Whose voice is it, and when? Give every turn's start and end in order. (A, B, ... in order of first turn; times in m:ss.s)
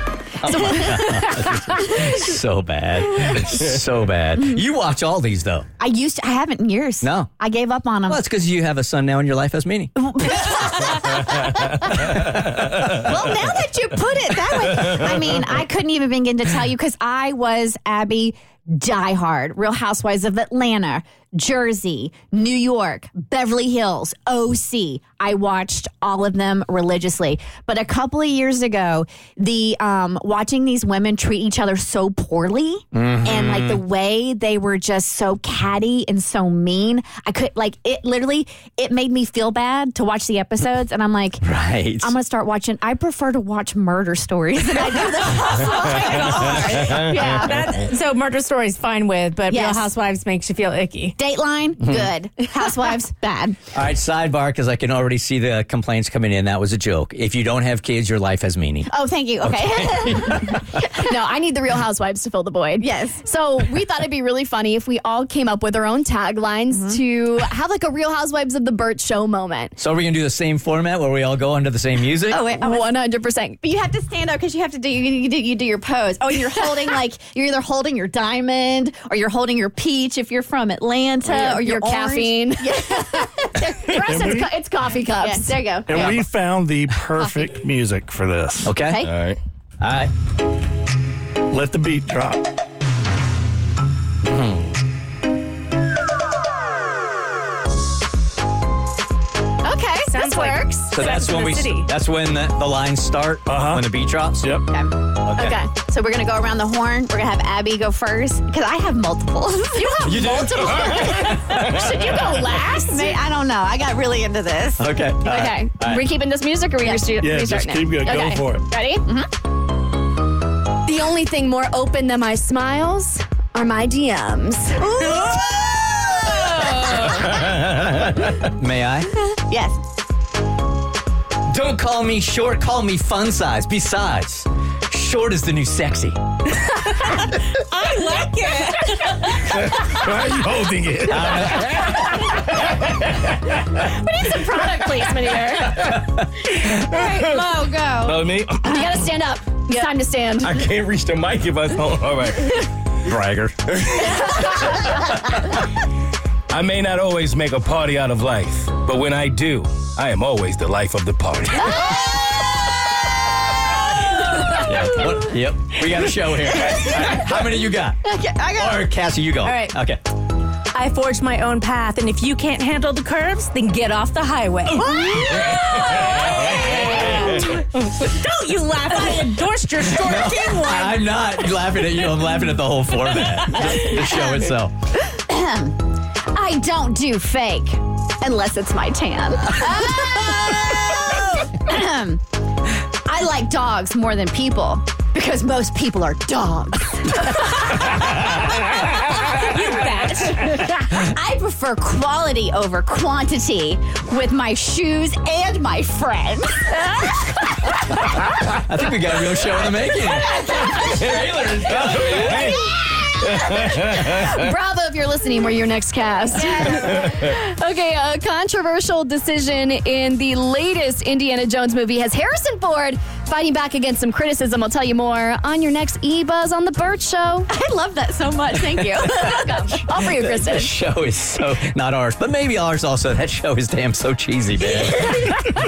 0:00.4-0:05.7 A
0:05.8-0:08.2 B
0:07.0-0:07.3 A
0:08.1-0:09.9 A
0:10.0-0:11.8 B
0:12.0-0:12.6 A
0:13.0-0:41.4 B
0:32.9-0:33.8 A
0:41.4-0:42.1 A
0:42.0-0:47.6 B
0:46.1-0:51.2 C
0:49.5-0:49.9 B
0:51.2-0:53.6 B
0:51.8-0:52.1 A
0:52.4-0:53.0 C
0:53.7-0:58.9 A
0:58.9-1:00.6 B
0:59.4-1:00.4 A
1:00.8-1:09.8 D
1:02.8-1:03.2 B
1:06.7-1:07.0 B
1:09.8-1:12.4 A
1:12.3-1:13.0 B
1:12.6-1:13.6 D
1:13.6-1:23.5 B
1:21.2-1:22.8 D
1:23.5-1:25.6 D
1:24.0-1:24.5 E
1:25.2-1:26.2 B
1:25.8-1:28.8 E
1:28.6-1:29.0 A
1:28.8-1:29.1 B
1:29.0-1:29.4 F
1:29.8-1:30.1 A
1:31.5-1:32.4 E
1:39.6-1:41.0 D
1:40.1-1:41.9 C
1:40.9-1:44.6 A
1:43.5-1:43.8 E
1:44.4-1:44.7 E
1:44.7-1:45.1 B
1:45.2-1:45.6 A
1:45.4-1:45.7 D
1:45.7-1:50.1 B
1:49.8-1:53.2 D
1:50.0-1:51.6 A
1:52.7-1:54.8 B
1:54.8-1:56.0 A
1:55.2-1:59.1 D
1:56.8-1:57.2 B
1:57.2-1:58.7 E
2:00.8-2:04.9 D
2:04.8-2:05.6 B
2:06.2-2:06.7 B
2:07.4-2:09.1 A
2:09.2-2:09.8 B
2:11.5-2:16.2 A
2:17.0-2:19.5 C
2:19.5-2:22.3 F
2:21.1-2:22.0 A
2:23.7-2:25.9 D
2:26.7-2:28.2 B
2:26.9-2:27.4 F
2:28.0-2:28.9 F
2:28.7-2:30.6 D
2:30.4-2:32.7 F
2:33.1-2:33.6 E
2:33.7-2:34.9 F
2:36.5-2:42.0 F
2:44.4-2:50.0 A
2:48.1-2:48.9 B
2:49.4-2:49.8 C
2:50.7-3:02.1 C
2:55.0-2:55.7 B
2:59.8-3:04.7 A
3:03.1-3:04.2 C
3:03.6-3:03.8 B
3:05.3-3:12.2 B
3:13.1-3:18.4 B
3:19.3-3:20.9 C
3:21.0-3:26.7 B
3:28.5-3:32.6 A
3:31.1-3:32.5 F
3:32.4-3:47.5 D
3:33.3-3:34.2 F
3:36.8-3:37.1 F
3:47.5-3:49.6 B
3:49.1-3:50.7 D
3:49.9-3:55.3 A